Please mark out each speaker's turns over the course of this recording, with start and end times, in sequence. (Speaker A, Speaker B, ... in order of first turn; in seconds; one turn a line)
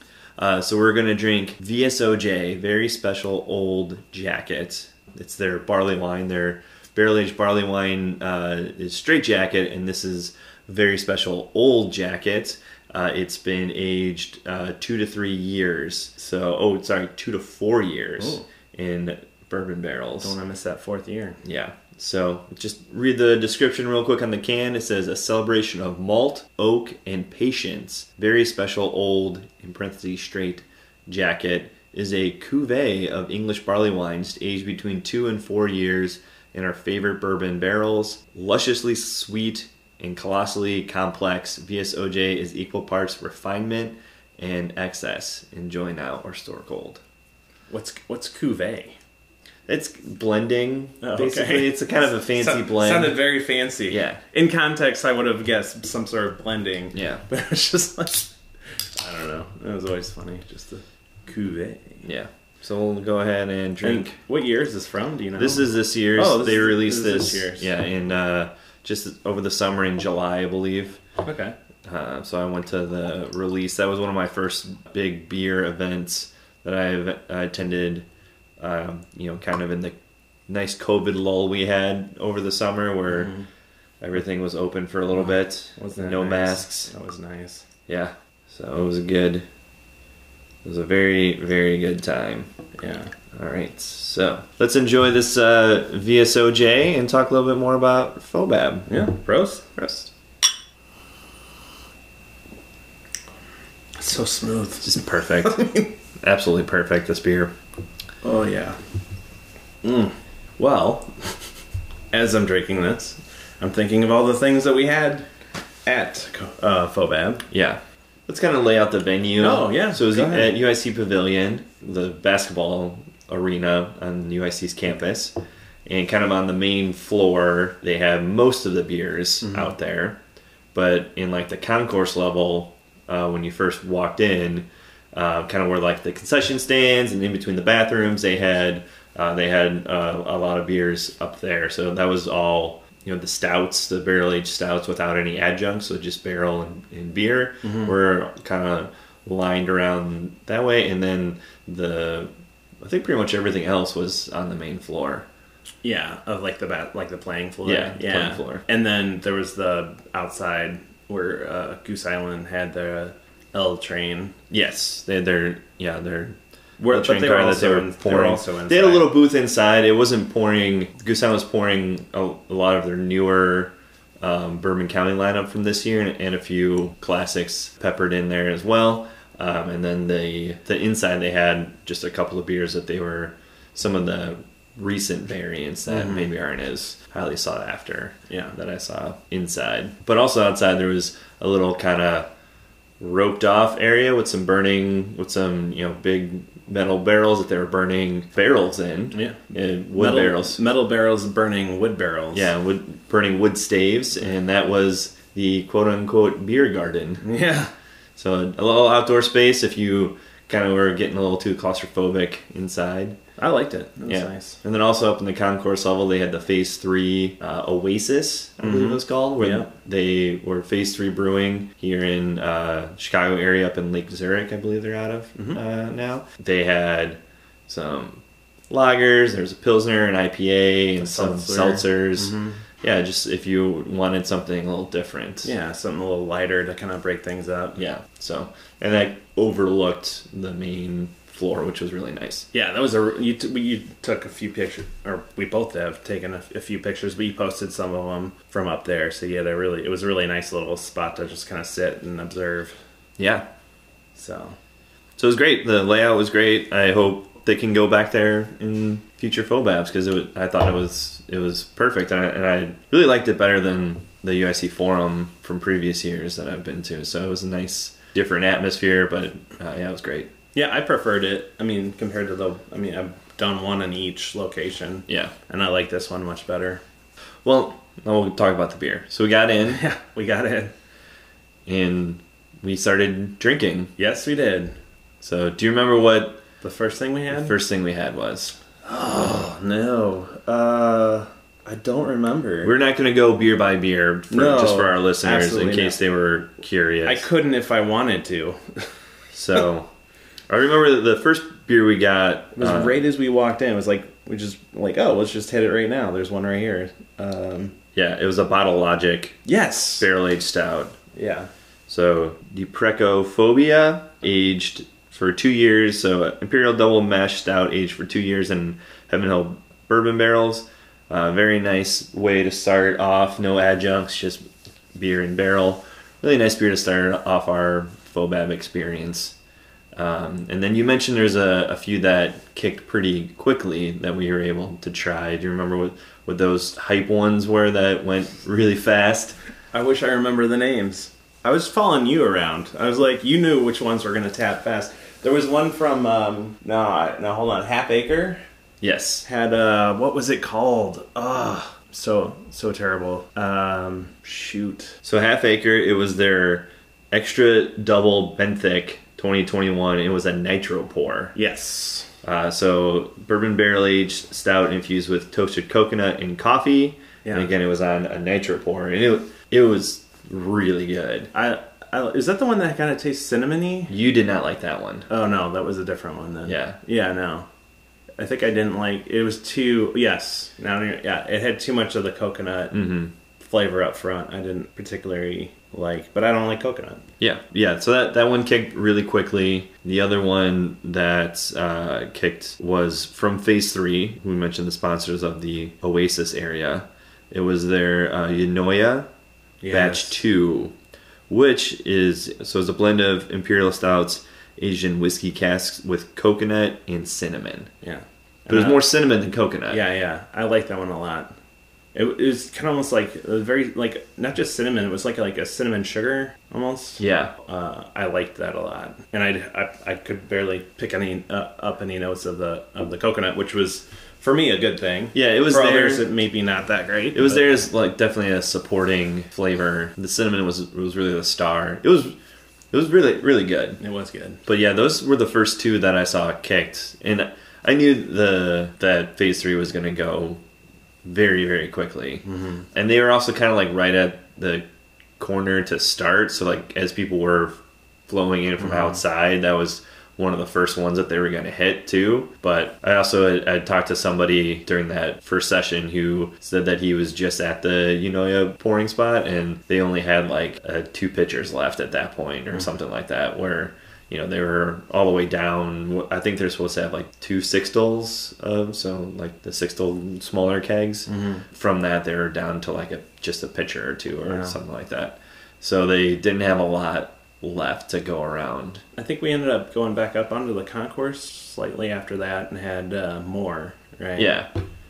Speaker A: 0.4-20.4
Speaker B: 18.2-18.4
Speaker B: 20.2-21.4
Speaker A: 21.4-47.0
Speaker B: 47.7-49.0
Speaker A: 49.7-53.2
Speaker B: 51.0-62.0
Speaker A: 53.9-54.2
Speaker A: 56.9-57.2
Speaker A: 62.0-64.2
Speaker B: 63.8-67.7
Speaker A: 65.4-71.0
Speaker B: 71.2-71.5
Speaker A: 71.8-78.0
Speaker A: 78.6-80.0
Speaker A: 80.5-83.3
Speaker A: 84.0-86.9
Speaker B: 85.7-87.6
Speaker A: 87.9-89.5
Speaker A: 90.6-92.5
Speaker B: 92.8-93.1
Speaker A: 93.3-98.9
Speaker B: 98.9-99.7
Speaker A: 99.8-100.1
Speaker B: 104.0-105.9
Speaker A: 104.8-107.5
Speaker B: 108.2-108.8
Speaker B: 109.8-111.5
Speaker B: 112.1-115.3
Speaker B: 115.8-117.4
Speaker A: 117.5-130.2
Speaker B: 119.4-120.5
Speaker A: 130.7-155.3
Speaker B: 147.6-147.9
Speaker B: 155.8-164.3
Speaker A: 157.6-158.6
Speaker A: 164.5-192.3
Speaker B: 166.8-169.1
Speaker B: 185.9-186.2
Speaker B: 188.3-188.6
Speaker A: 193.0-200.6
Speaker B: 199.1-199.4
Speaker B: 199.9-202.5
Speaker A: 202.3-207.2
Speaker B: 207.2-207.7
Speaker A: 208.2-213.2
Speaker B: 213.4-214.6
Speaker A: 214.1-235.5
Speaker B: 218.6-219.7
Speaker B: 231.0-232.6
Speaker B: 235.4-237.8
Speaker A: 237.8-242.5
Speaker B: 242.5-252.8
Speaker A: 253.2-253.4
Speaker B: 254.2-254.6
Speaker A: 255.2-270.3
Speaker B: 270.5-276.8
Speaker A: 275.1-275.3
Speaker A: 277.4-279.8
Speaker B: 279.6-280.7
Speaker A: 281.6-283.9
Speaker B: 284.0-284.8
Speaker A: 285.2-286.4
Speaker B: 286.6-287.5
Speaker A: 287.3-288.6
Speaker B: 288.8-292.7
Speaker A: 292.6-297.2
Speaker B: 294.3-296.0
Speaker B: 297.1-298.9
Speaker A: 299.3-299.9
Speaker A: 300.5-303.0
Speaker B: 302.6-307.7
Speaker A: 307.9-309.4
Speaker B: 309.4-310.1
Speaker A: 310.0-311.0
Speaker B: 311.1-311.5
Speaker A: 311.9-324.4
Speaker A: 324.9-329.3
Speaker A: 329.9-339.3
Speaker B: 339.7-348.4
Speaker A: 348.8-349.2
Speaker B: 349.2-355.0
Speaker A: 355.0-361.4
Speaker B: 361.3-362.1
Speaker A: 362.2-371.3
Speaker B: 367.2-367.5
Speaker B: 371.3-373.9
Speaker A: 373.9-375.1
Speaker B: 375.1-377.5
Speaker A: 376.4-376.8
Speaker B: 378.2-387.0
Speaker A: 382.7-383.1
Speaker A: 387.2-399.1
Speaker B: 399.6-400.2
Speaker A: 399.7-400.7
Speaker A: 401.3-407.7
Speaker B: 407.8-408.8
Speaker A: 408.5-409.8
Speaker B: 409.7-411.3
Speaker B: 411.9-427.5
Speaker A: 417.0-417.3
Speaker A: 425.1-426.1
Speaker A: 427.1-432.1
Speaker A: 432.7-433.8
Speaker B: 433.8-434.4
Speaker A: 434.4-440.4
Speaker A: 441.0-444.6
Speaker B: 442.3-442.6
Speaker A: 445.2-478.8
Speaker B: 448.6-449.0
Speaker B: 471.1-471.4
Speaker B: 474.3-474.5
Speaker B: 478.9-484.3
Speaker A: 484.1-484.5